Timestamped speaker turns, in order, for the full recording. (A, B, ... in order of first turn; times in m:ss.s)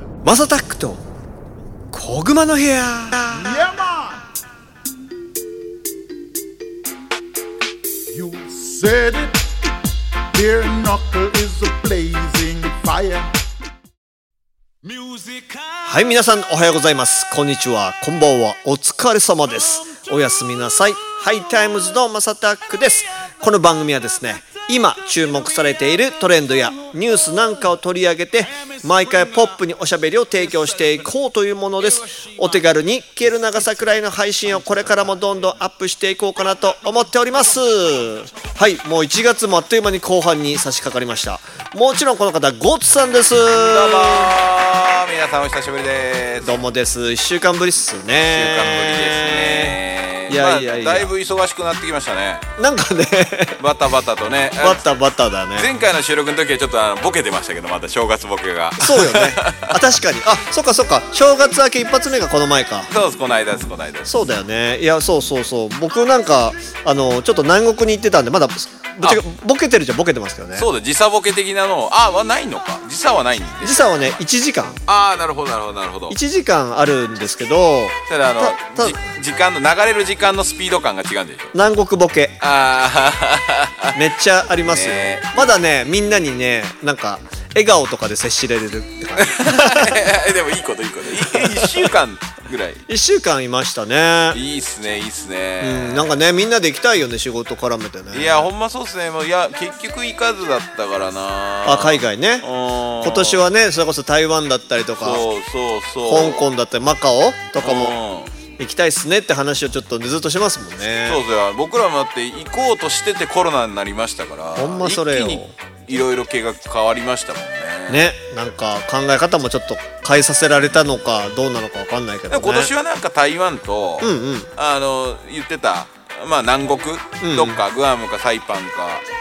0:00.2-0:01.0 A
0:01.9-0:03.7 A
0:03.3-0:04.2 B
0:08.1-0:09.4 B
0:10.3-0:13.3 B
0:15.8-0:44.4 A
0:43.5-0:46.5 C
0:46.4-0:51.1 A
0:48.3-0:52.4 C
0:52.6-0:53.6 A
0:53.6-0:54.8 C
0:54.6-0:55.7 A
0:55.6-0:59.8 C
0:58.8-1:02.9 A
1:02.9-1:04.1 C
1:04.0-1:10.7 A
1:10.5-1:14.1 C
1:13.6-1:14.8 A
1:14.8-1:16.2 C
1:16.1-1:19.0 A
1:18.1-1:21.5 C
1:21.5-1:22.4 A
1:22.4-1:24.0 C
1:23.9-1:30.0 A
1:24.6-1:25.5 C
1:29.2-1:32.8 C
1:31.2-1:31.9 A
1:32.9-1:34.4 A
1:34.3-1:36.1 C
1:35.6-1:38.5 A
1:38.1-1:43.4 C
1:41.6-1:42.4 A
1:43.0-1:45.2 A
1:45.0-1:46.4 C
1:46.0-1:47.9 A
1:47.6-1:48.3 C
1:48.6-1:51.2 A
1:51.0-1:58.1 C
1:54.6-1:55.5 A
1:57.9-2:02.7 A
2:02.3-2:09.0 C
2:04.0-2:04.5 A
2:07.2-2:07.6 A